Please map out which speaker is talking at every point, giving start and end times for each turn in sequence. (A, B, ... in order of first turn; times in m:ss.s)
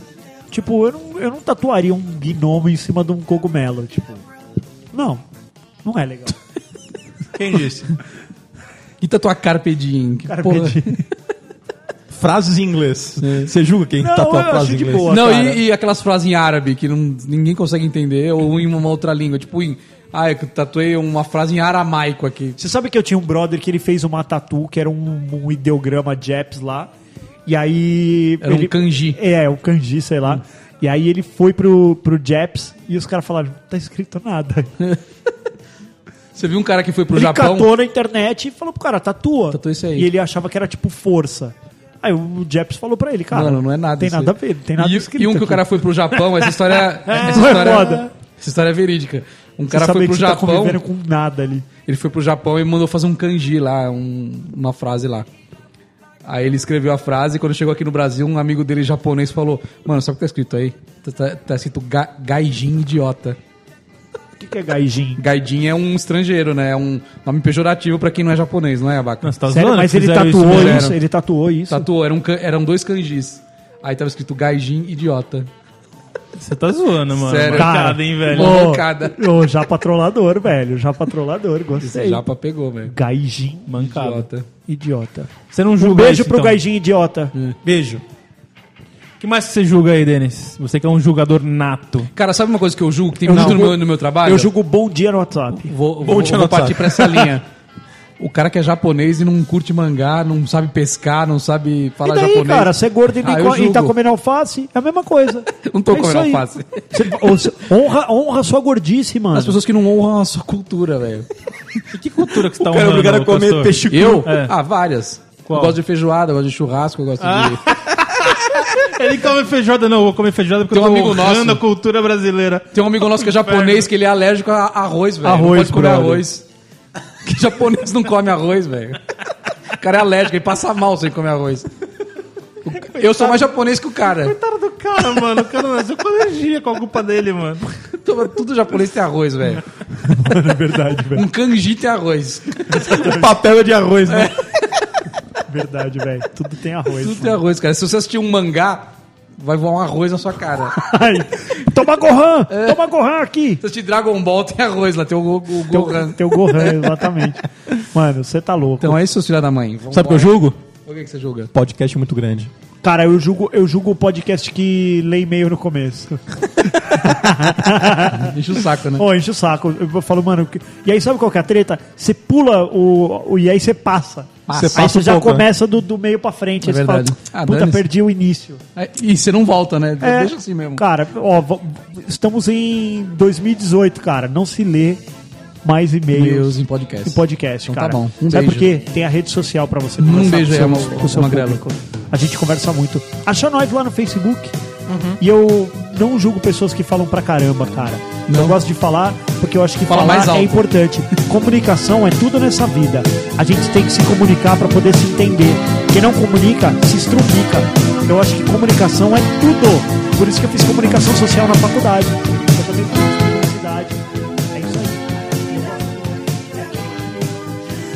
0:00.5-0:04.2 A
0:04.9-0:05.2 A
0:05.8-0:06.4 A
0:07.4-0:07.9 B
0:09.0-0:11.0 C
0:10.2-0:11.0 A
0:12.1-0:15.1 D
0:13.2-0:13.5 C
0:14.0-0:15.6 A
0:15.0-0:22.6 C
0:22.6-0:26.9 A
0:27.4-0:34.7 A
0:28.4-0:29.2 C
0:36.3-0:37.7 C
0:37.1-0:46.2 A
0:39.5-0:40.1 C
0:43.3-0:50.8 C
0:46.7-0:48.1 A
0:49.7-0:51.7 A
0:51.8-0:55.3 C
0:56.2-1:03.4 C
1:04.4-1:05.2 A
1:05.2-1:09.3 C
1:09.2-1:10.9 B
1:09.5-1:11.9 A
1:10.4-1:10.9 C
1:11.7-1:15.5 C
1:16.4-1:18.7 B
1:17.2-1:19.2 C
1:17.5-1:22.2 A
1:21.8-1:22.9 C
1:22.8-1:23.7 A
1:23.7-1:24.3 B
1:23.8-1:24.5 C
1:24.7-1:27.3 A
1:25.5-1:26.6 B
1:27.6-1:28.0 D
1:29.2-1:32.1 B
1:32.1-1:34.5 C
1:33.2-1:35.7 A
1:35.5-1:37.4 C
1:36.0-1:37.4 D
1:38.2-1:43.9 C
1:42.0-1:49.6 A
1:45.6-1:47.1 C
1:49.3-1:51.8 C
1:51.9-1:54.5 B
1:52.6-1:54.3 D
1:53.9-1:57.8 C
1:55.5-1:55.8 B
1:57.2-2:03.9 B
2:00.7-2:01.6 C
2:02.7-2:06.4 C
2:05.2-2:06.2 A
2:07.2-2:09.0 C
2:09.7-2:11.7 C
2:12.6-2:14.4 C
2:13.0-2:13.5 B
2:14.1-2:17.7 B
2:17.9-2:19.6 C
2:19.9-2:21.2 A
2:21.1-2:23.0 C
2:22.6-2:23.4 A
2:23.0-2:24.3 D
2:24.1-2:24.9 C
2:25.5-2:27.4 A
2:26.9-2:30.8 C
2:30.7-2:33.6 A
2:32.5-2:32.8 C
2:33.6-2:37.0 C
2:35.7-2:39.0 A
2:38.8-2:41.5 C
2:39.9-2:40.6 D
2:41.5-2:42.5 D
2:42.8-2:48.4 A
2:48.0-2:49.1 C
2:48.9-2:58.6 A
2:54.5-2:54.9 C
2:54.5-2:55.4 D
2:56.6-2:57.9 C
2:58.7-3:00.8 C
3:00.0-3:05.0 A
3:05.6-3:14.5 A
3:06.1-3:08.7 C
3:10.0-3:11.6 C
3:14.9-3:15.2 C
3:15.2-3:37.1 A
3:18.3-3:18.6 C
3:19.9-3:20.7 C